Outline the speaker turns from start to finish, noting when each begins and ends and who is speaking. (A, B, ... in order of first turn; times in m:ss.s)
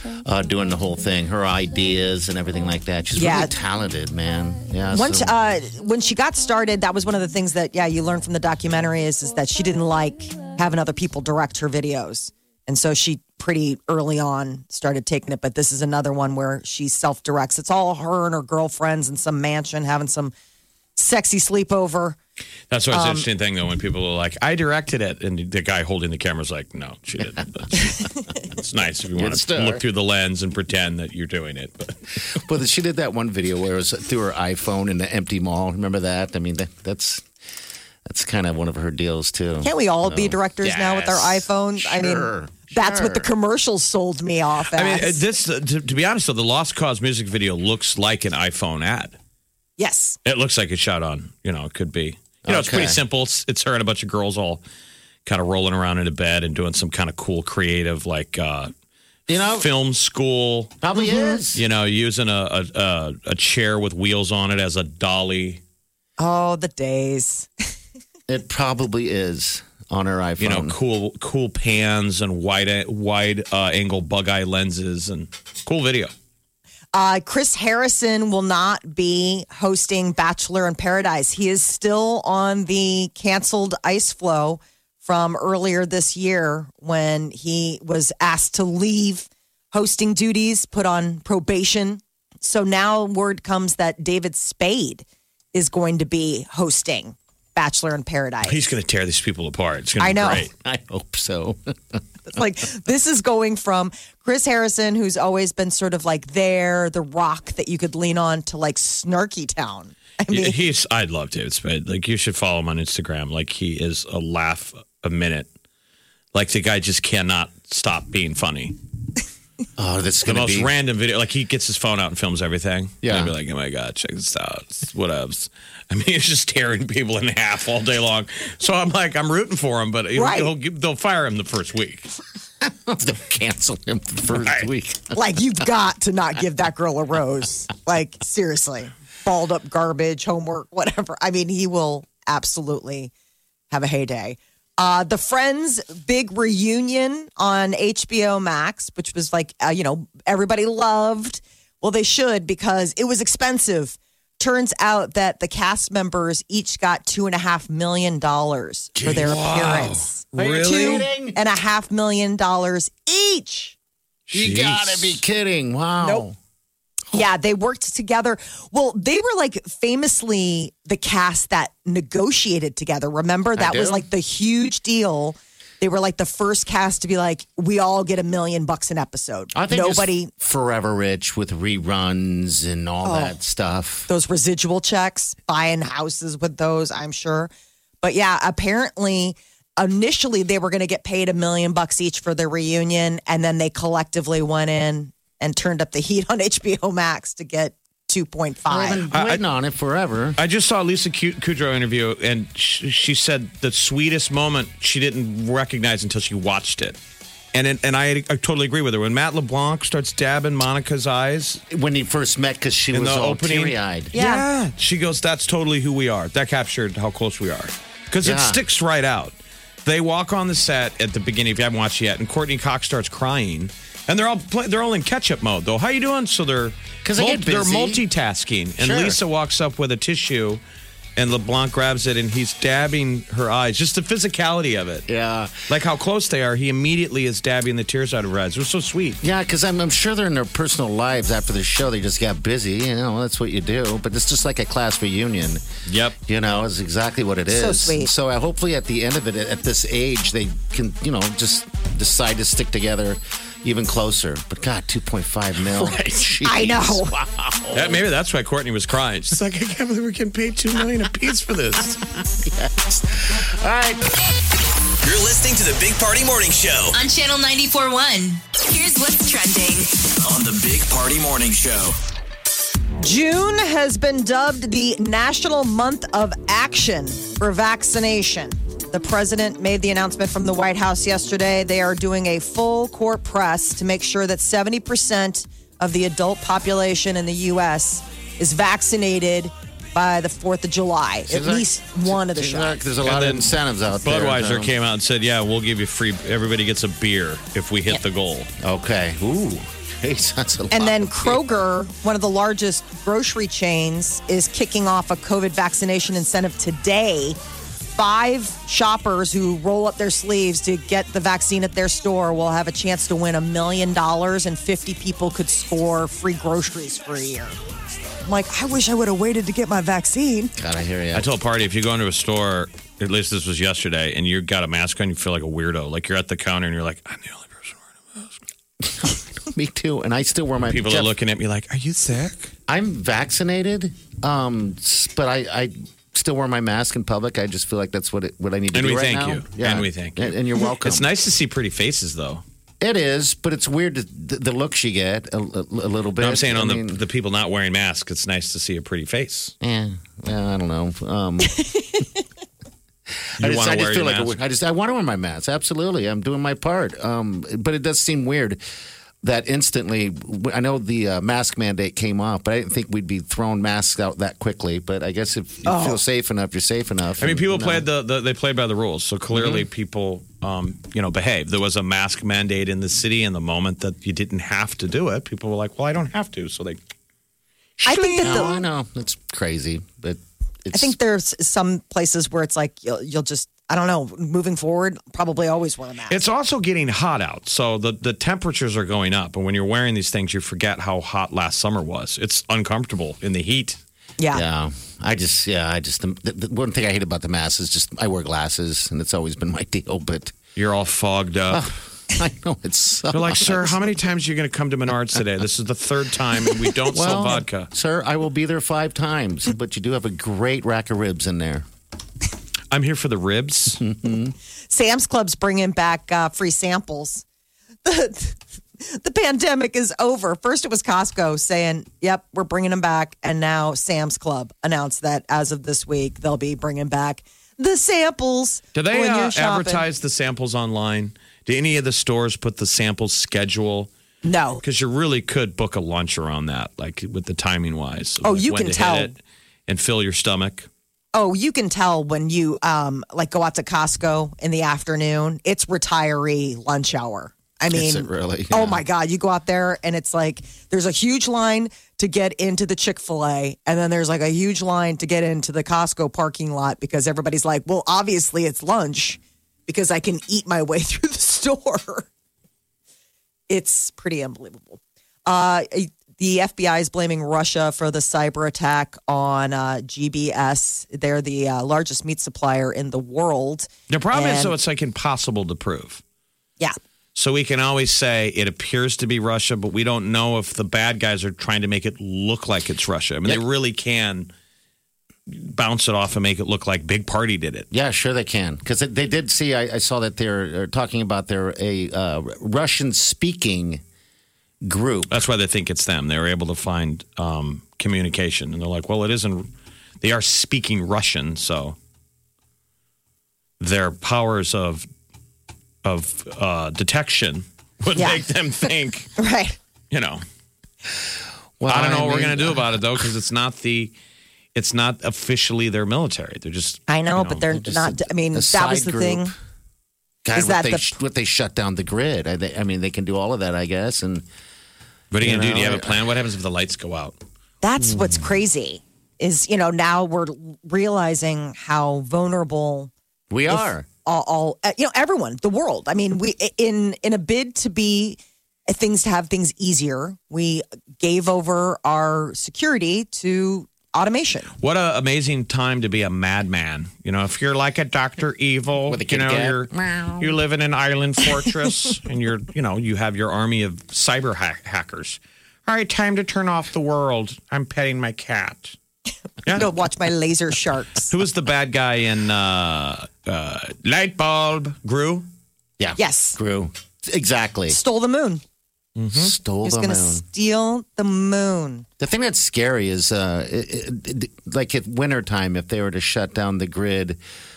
0:00.2-0:05.3 A
0:03.2-0:03.5 B
0:04.9-0:20.3 B
0:21.0-0:22.2 B
0:22.7-0:32.0 C
0:22.9-0:23.2 B
0:29.2-0:29.8 A
0:32.4-0:37.2 A
0:38.0-0:43.3 A
0:39.6-0:45.2 B
0:44.7-0:49.1 C
0:49.8-0:50.2 B
0:50.2-0:54.6 C
0:52.4-0:53.0 A
0:55.2-0:58.7 C
0:59.3-0:59.7 A
0:59.5-1:00.8 C
1:00.8-1:01.6 A
1:01.5-1:05.6 C
1:06.2-1:07.5 B
1:08.3-1:10.7 A
1:10.4-1:16.1 C
1:16.9-1:38.6 B
1:38.4-1:40.5 C
1:40.0-1:40.4 B
1:40.6-1:42.0 A
1:42.3-1:50.6 B
1:50.3-1:55.5 C
1:56.3-1:58.7 C
1:59.8-2:00.7 A
2:00.2-2:12.1 C
2:03.0-2:03.3 A
2:10.2-2:10.5 B
2:12.6-2:15.2 A
2:14.4-2:14.7 C
2:15.1-2:23.1 B
2:23.7-2:43.8 B
2:39.0-2:39.4 A
2:39.0-2:41.1 C
2:40.4-2:41.4 A
2:44.3-2:45.2 C
2:44.3-2:46.4 A
2:47.1-3:00.3 B
2:53.6-2:54.0 A
2:59.5-3:04.1 A
3:03.0-3:03.3 B
3:04.1-3:07.5 B
3:08.0-3:19.0 B
3:18.7-3:20.4 A
3:19.1-3:19.4 C
3:20.4-3:27.0 C
3:27.5-3:31.6 C
3:31.7-3:34.1 A
3:32.9-3:50.6 C
3:34.1-3:34.4 B
3:38.2-3:38.6 A
3:47.0-3:48.0 A
3:48.8-3:49.2 A
3:51.2-3:55.0 C
3:55.1-3:55.7 A
3:55.7-3:59.2 C
3:59.2-4:05.6 A
4:05.9-4:06.2 C
4:06.2-4:18.0 A
4:07.5-4:08.1 B
4:15.7-4:16.3 C
4:16.4-4:17.1 B
4:17.7-4:22.0 C
4:22.3-4:24.0 A
4:25.0-4:27.0 D
4:26.9-4:30.0 E
4:30.2-4:32.0 D
4:33.0-4:52.8 B
4:51.3-4:54.7 A
4:53.0-4:58.5 C
4:58.6-5:01.4 A
5:00.7-5:07.4 B
5:07.9-5:17.6 B
5:18.2-5:20.5 B
5:20.6-5:21.3 A
5:21.1-5:28.4 C
5:28.8-5:31.1 A
5:30.7-5:32.5 C
5:32.7-5:41.0 A
5:38.7-5:42.4 C
5:42.8-5:47.0 A
5:46.2-5:49.5 C
5:49.6-5:52.0 A
5:53.4-5:58.6 A
5:53.4-5:54.4 C
5:59.2-6:07.8 A
6:05.6-6:06.0 B
6:07.2-6:16.8 C
6:09.3-6:09.6 A
6:17.8-6:18.5 C
6:17.8-6:18.6 B
6:18.2-6:20.9 A
6:20.7-6:26.2 B
6:26.1-6:33.8 C
6:34.3-6:40.4 A
6:40.6-6:41.7 C
6:41.5-6:43.9 A
6:43.1-6:47.7 C
6:46.8-6:51.6 A
6:52.7-6:53.8 C
6:53.8-6:54.3 A
6:54.7-6:57.2 B
6:57.8-7:09.8 B
7:08.7-7:13.9 C
7:14.2-7:14.6 B
7:14.6-7:20.7 C
7:18.2-7:19.1 B
7:21.1-7:42.1 B
7:27.7-7:28.8 A
7:43.5-7:54.5 B
7:53.9-7:56.0 C
7:57.2-8:04.3 C
8:05.3-8:07.7 C
8:07.7-8:13.8 A
8:14.6-8:15.2 A
8:15.1-8:19.5 C
8:20.0-8:21.8 C
8:23.6-8:24.9 C
8:25.8-8:29.1 C
8:28.0-8:28.2 B
8:29.2-8:29.6 B
8:29.9-8:30.2 C
8:31.6-8:33.0 A
8:31.7-8:33.9 C
8:34.5-8:37.5 C
8:36.9-8:39.3 B
8:37.6-8:39.3 A
8:40.2-8:44.2 A
8:40.3-8:40.9 B
8:45.1-8:47.2 C
8:45.2-8:46.0 A
8:47.6-8:52.9 B
8:53.3-8:53.9 A
8:53.5-9:04.5 B
9:04.6-9:18.8 C
9:08.9-9:10.4 A
9:19.5-9:21.1 B
9:21.1-9:25.3 C
9:25.8-9:27.8 A
9:26.0-9:26.4 B
9:27.7-9:28.4 B
9:29.0-9:29.3 C
9:29.1-9:30.2 A
9:29.6-9:31.9 B
9:32.0-9:37.2 A